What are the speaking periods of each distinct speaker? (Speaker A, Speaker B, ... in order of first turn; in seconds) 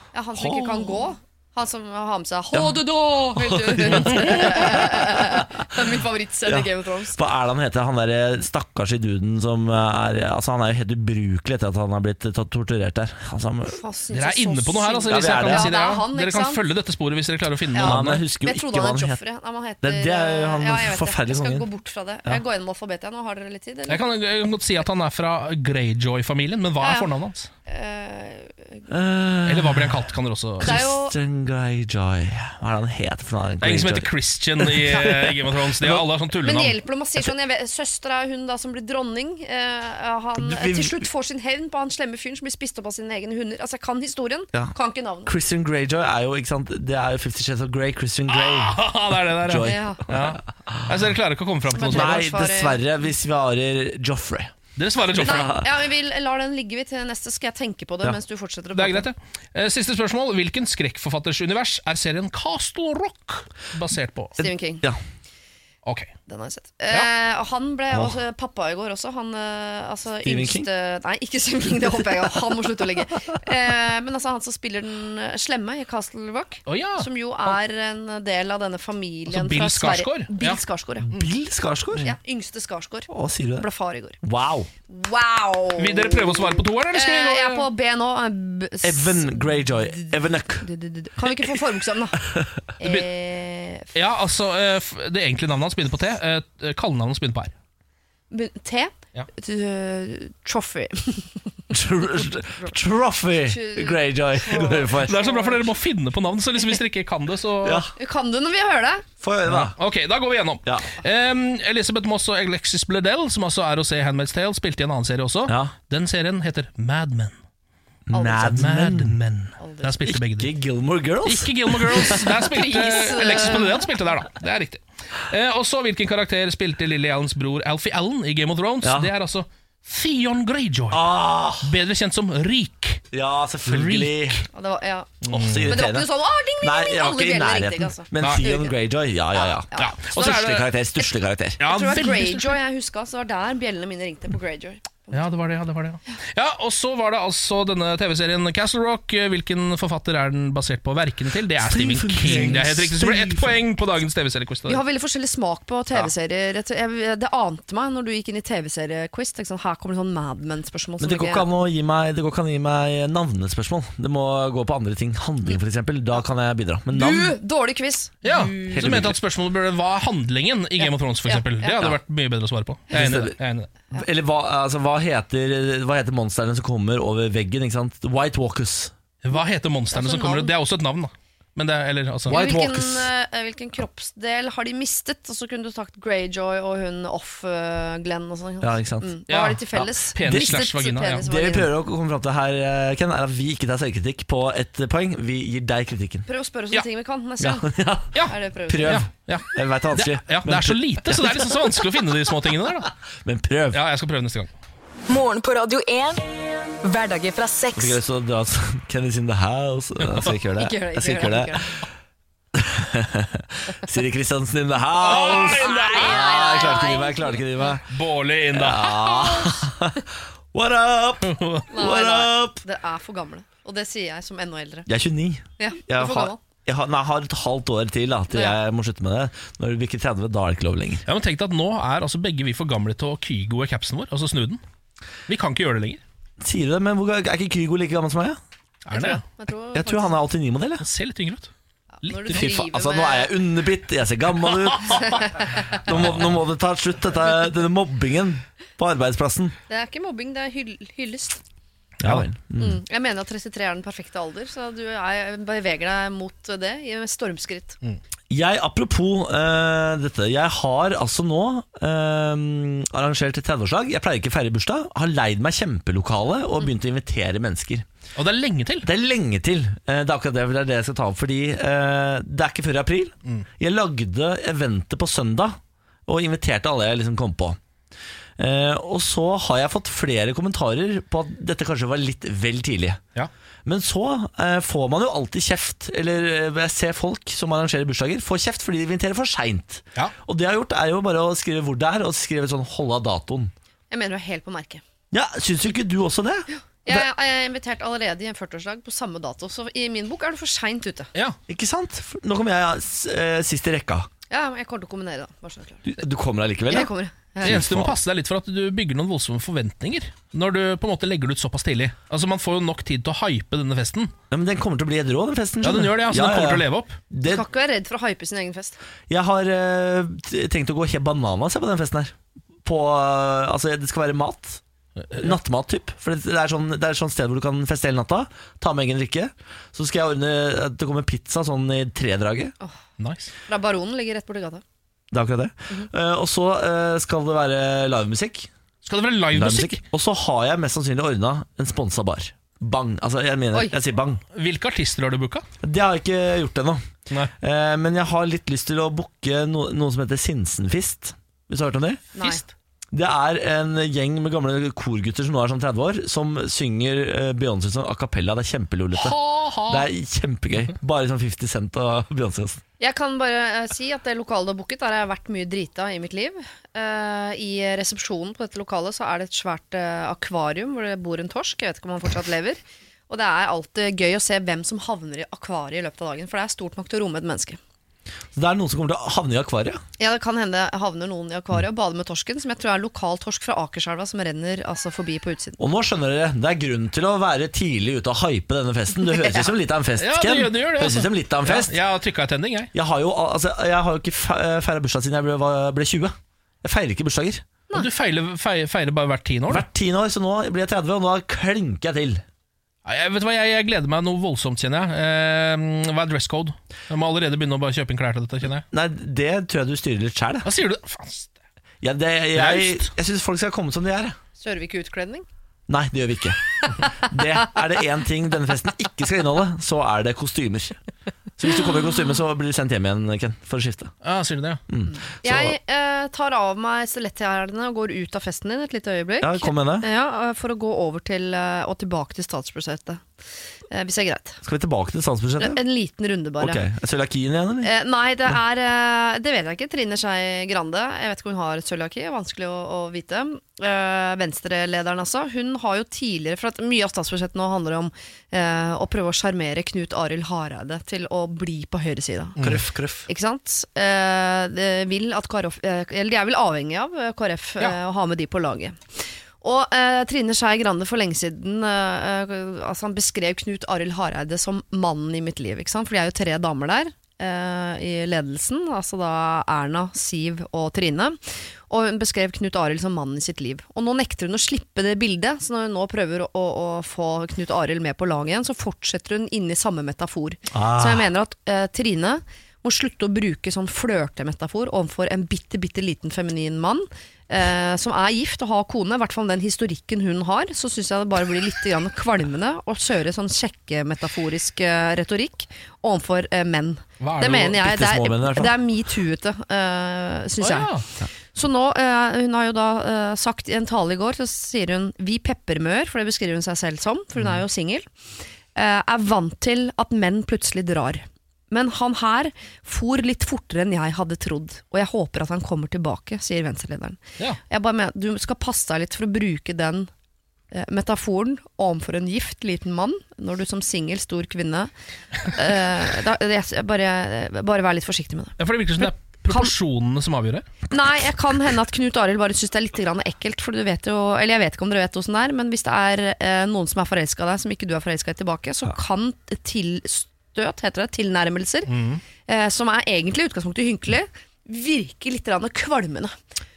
Speaker A: 0.1-7.2, 13.7-16.6, 17.7-24.0, 26.8-27.1, 27.7-28.8, 30.6-31.1, 36.4-45.3, 49.6-50.0, 51.7-52.8, 55.2-59.1, 64.4-64.8, 66.3-81.1, 82.0-84.2, 84.9-92.2, 92.8-93.9, 98.3-101.3, 103.5-105.7, 108.0-109.1, 118.1-118.5, 119.6-120.0, 122.1-123.9, 134.5-138.8, 139.3-140.4, 141.6-145.2, 154.7-161.5, 166.9-169.0, 171.3-171.9, 179.9-180.5, 182.3-191.7, 196.3-199.0, 210.6-211.8, 215.1-217.7, 221.7-224.9, 225.6-226.4, 228.3-228.6, 238.9-240.2, 242.0-243.3, 244.9-245.8, 249.7-251.4, 252.6-257.8, 293.9-294.8, 296.5-301.1, 304.3-305.9, 306.7-307.7, 317.2-318.8, 333.5-334.6, 352.1-352.4, 362.8-377.6, 380.0-385.6, 389.1-389.5, 414.4-415.3, 424.9-433.1, 433.7-434.4, 435.4-436.6, 437.6-452.4, 453.1-507.9, 508.6-517.0, 517.5-519.9, 520.5-524.7, 525.2-529.5, 530.7-541.7, 542.3-546.1
Speaker B: 0.3-1.0, 2.5-2.8, 3.4-5.5, 6.5-13.8, 15.1-15.7, 17.8-19.2, 19.8-21.7, 28.9-30.0, 30.6-34.1, 34.6-36.1, 40.4-41.0, 45.3-49.8, 51.9-54.5, 55.1-55.7, 64.4-65.0, 67.9-68.2, 70.2-70.7, 81.0-82.1, 83.1-83.7, 84.2-84.7, 88.8-90.7, 101.7-105.2, 107.6-107.9, 109.2-109.8, 115.5-115.7, 118.1-119.2, 120.1-122.2, 128.8-129.1, 130.9-131.7, 133.1-134.4, 135.3-136.1, 136.6-141.6, 151.6-153.6, 161.0-167.4, 168.7-169.2, 172.9-173.4, 173.9-178.9, 182.3-183.1, 188.6-189.1, 190.3-190.6, 191.2-196.3, 197.4-201.8, 203.2-203.8, 207.8-211.6, 212.6-217.9, 218.5-220.0, 220.5-222.6, 224.9-231.0, 236.4-238.4, 239.7-240.8, 242.3-245.2, 245.8-249.6, 252.0-252.8, 258.3-267.9, 268.8-277.6, 278.4-283.0, 283.7-293.5, 295.1-297.1, 301.5-304.1, 305.9-306.9, 307.4-307.9, 314.3-317.4, 319.1-322.1, 322.6-324.6, 325.2-332.5, 335.1-338.5, 339.3-344.2, 345.6-346.9, 347.4-352.1, 352.9-362.6, 378.4-379.8, 385.6-391.8, 392.7-397.4, 399.5-402.2, 408.7-410.5, 411.8-414.2, 415.7-416.4, 416.9-420.8, 421.4-423.9, 424.7-425.6, 429.2-429.9, 434.4-435.6, 436.4-437.7, 452.4-453.1, 480.5-481.1, 497.4-498.6
Speaker C: 4.0-4.4, 14.1-18.2, 23.9-27.5, 29.5-30.8, 33.6-36.8, 48.3-52.2, 54.8-55.5, 58.8-64.4, 65.8-66.1, 76.7-77.5, 79.3-80.6, 85.8-87.7, 92.8-93.1, 93.9-97.5, 105.0-107.8, 109.5-117.4, 118.4-120.5, 121.2-131.1, 131.6-133.0, 133.7-134.4, 135.2-135.8, 139.8-140.7, 141.6-142.6, 145.1-154.8, 168.2-173.7, 179.2-182.4, 189.3-191.3, 198.1-202.9, 203.7-204.5, 215.0-217.0, 217.9-219.4, 221.2-221.7, 231.1-234.6, 235.3-236.0, 238.9-239.2, 240.8-241.5, 242.0-242.5, 252.0-252.3, 268.2-268.9, 307.4-314.1, 315.6-317.0, 325.0-325.4, 333.0-333.3, 338.8-339.8, 344.3-345.5, 358.9-359.9, 390.0-392.7, 397.7-399.7, 402.9-408.6, 410.4-411.4, 412.3-412.9, 424.0-424.6, 497.0-497.6, 500.4-500.9, 528.4-530.5, 541.7-542.0
Speaker D: 205.1-206.2, 206.8-208.0